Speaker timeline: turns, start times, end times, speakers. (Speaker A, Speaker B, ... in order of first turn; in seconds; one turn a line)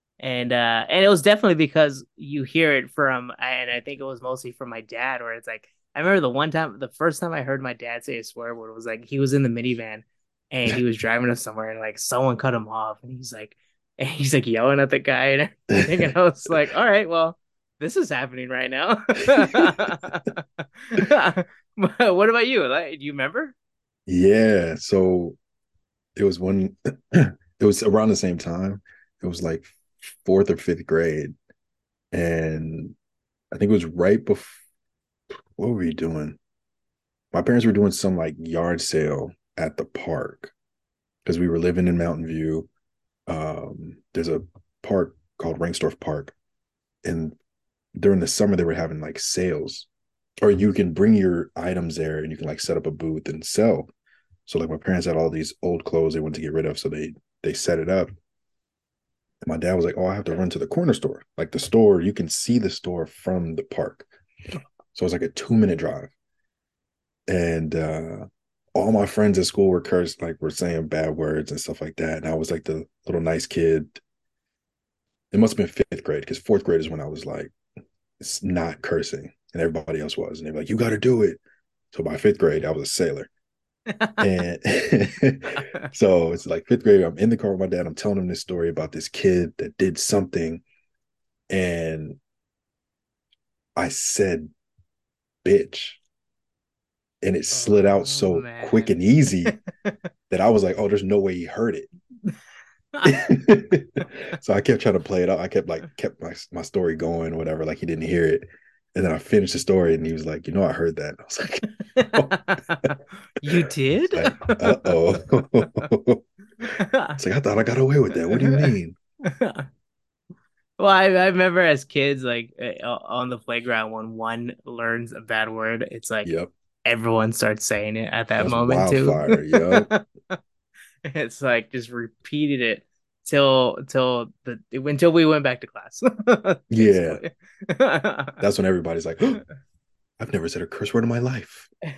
Speaker A: 0.2-23.6
Speaker B: 15.7-16.1
Speaker B: 24.1-25.4
Speaker B: 26.2-31.3
Speaker B: 32.1-32.9
Speaker B: 33.5-34.6
Speaker B: 35.5-36.4
Speaker B: 37.3-40.5
Speaker B: 41.2-42.7
Speaker B: 43.3-46.4
Speaker B: 47.0-47.4
Speaker B: 48.0-49.9
Speaker B: 50.4-53.9
Speaker B: 54.5-58.1
Speaker B: 59.4-64.1
Speaker B: 64.9-66.1
Speaker B: 67.3-74.0
Speaker B: 75.3-77.5
Speaker B: 78.2-81.4
Speaker B: 81.9-83.3
Speaker A: 83.9-84.2
Speaker B: 84.2-90.6
Speaker A: 85.6-85.9
Speaker B: 91.5-92.2
Speaker B: 93.8-94.5
Speaker B: 95.4-96.0
Speaker B: 97.2-99.6
Speaker A: 97.5-98.9
Speaker B: 100.3-101.9
Speaker A: 103.0-103.3
Speaker B: 103.0-112.9
Speaker A: 111.9-115.0
Speaker B: 113.4-116.2
Speaker A: 116.6-117.2
Speaker B: 117.2-119.0
Speaker A: 118.3-118.7
Speaker A: 119.3-119.7
Speaker A: 120.8-126.3
Speaker B: 126.2-126.5
Speaker A: 126.8-130.4
Speaker B: 128.4-129.9
Speaker A: 131.1-138.4
Speaker B: 136.7-137.2
Speaker B: 138.4-139.4
Speaker B: 140.2-141.7